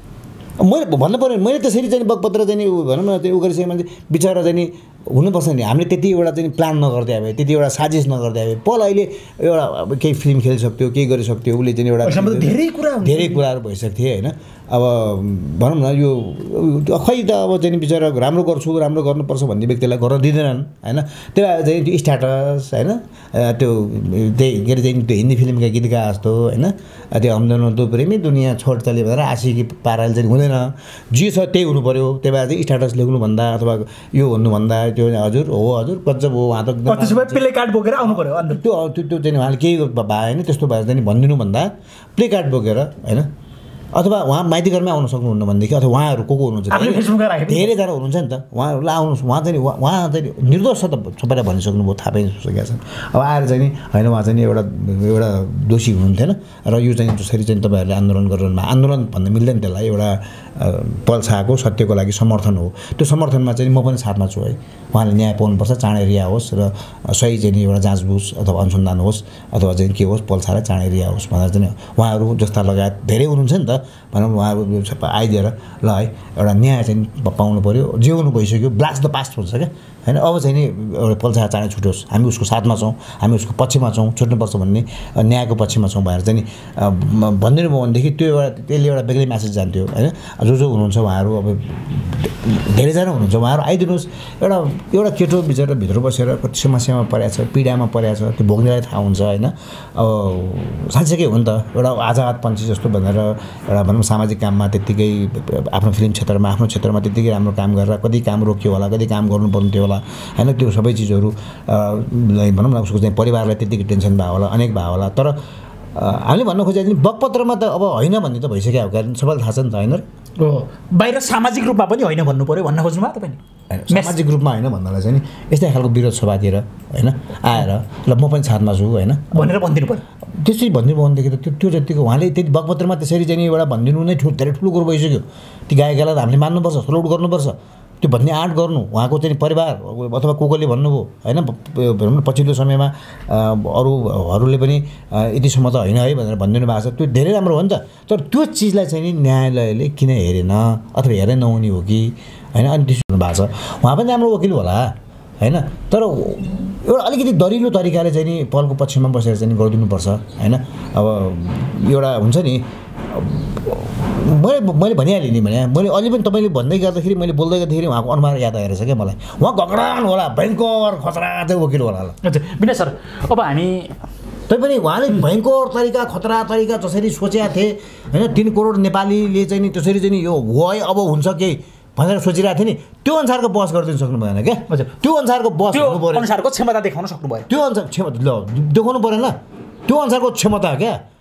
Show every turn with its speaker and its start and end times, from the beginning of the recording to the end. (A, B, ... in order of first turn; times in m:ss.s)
0:00.6-0:37.4 A
0:12.0-0:13.4 B
0:36.9-0:38.6 B
0:38.0-0:43.3 A
0:43.9-1:55.4 A
0:46.7-0:47.7 B
1:55.9-2:00.0 A
2:00.4-2:03.4 B
2:03.7-2:09.6 A
2:03.9-2:04.2 B
2:09.3-2:10.0 B
2:10.3-2:52.2 A
2:52.2-2:53.9 B
2:54.5-3:06.3 A
3:05.7-3:07.5 B
3:07.5-3:11.0 A